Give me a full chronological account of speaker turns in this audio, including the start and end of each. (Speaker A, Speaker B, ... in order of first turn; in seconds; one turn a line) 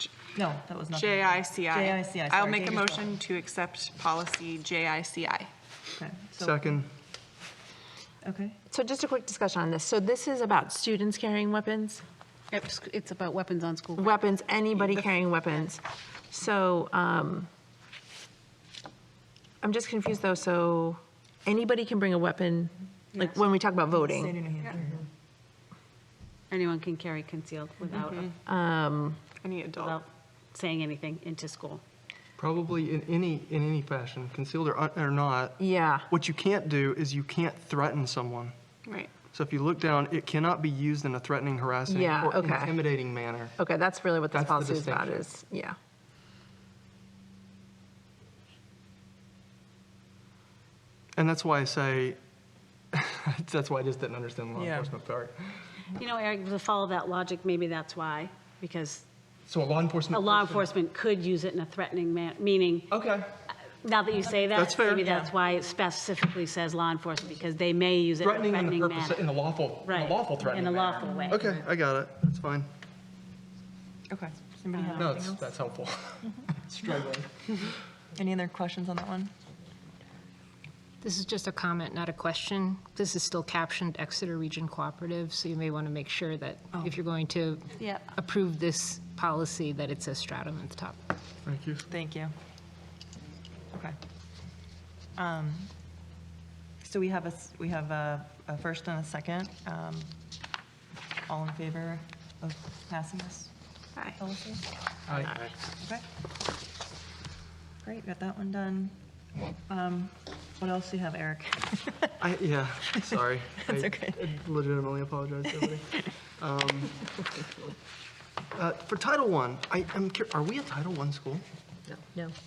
Speaker A: 0.3-3.2
Speaker B: 0.9-5.5
Speaker A: 6.0-6.8
Speaker C: 6.4-6.9
Speaker A: 8.2-8.6
Speaker D: 8.7-12.0
Speaker E: 12.5-14.2
Speaker D: 13.9-17.5
Speaker D: 19.6-24.4
Speaker A: 23.9-25.0
Speaker E: 26.5-28.4
Speaker B: 28.0-28.3
Speaker D: 28.4-29.2
Speaker B: 29.4-30.0
Speaker E: 29.7-31.8
Speaker C: 32.4-38.6
Speaker D: 35.6-36.1
Speaker C: 39.3-43.6
Speaker D: 41.9-45.8
Speaker C: 44.3-45.2
Speaker C: 51.2-52.2
Speaker C: 52.9-55.7
Speaker A: 54.6-54.9
Speaker E: 56.0-59.0
Speaker C: 59.5-60.7
Speaker E: 60.1-63.0
Speaker C: 62.9-63.3
Speaker E: 63.8-69.3
Speaker C: 64.5-65.1
Speaker A: 65.0-65.3
Speaker C: 68.2-72.7
Speaker E: 69.8-71.5
Speaker A: 74.1-75.5
Speaker E: 74.7-75.2
Speaker C: 75.0-77.3
Speaker A: 76.8-77.2
Speaker A: 78.2-79.3
Speaker F: 81.0-91.0
Speaker E: 87.8-88.1
Speaker C: 91.5-91.9
Speaker A: 91.9-92.3
Speaker A: 95.2-95.7
Speaker A: 96.8-100.1
Speaker A: 101.3-103.5
Speaker A: 104.1-104.6
Speaker C: 105.1-105.5
Speaker A: 105.8-106.0
Speaker A: 107.8-109.0
Speaker A: 109.7-112.1
Speaker C: 112.2-117.2
Speaker A: 112.9-114.2
Speaker C: 118.5-121.4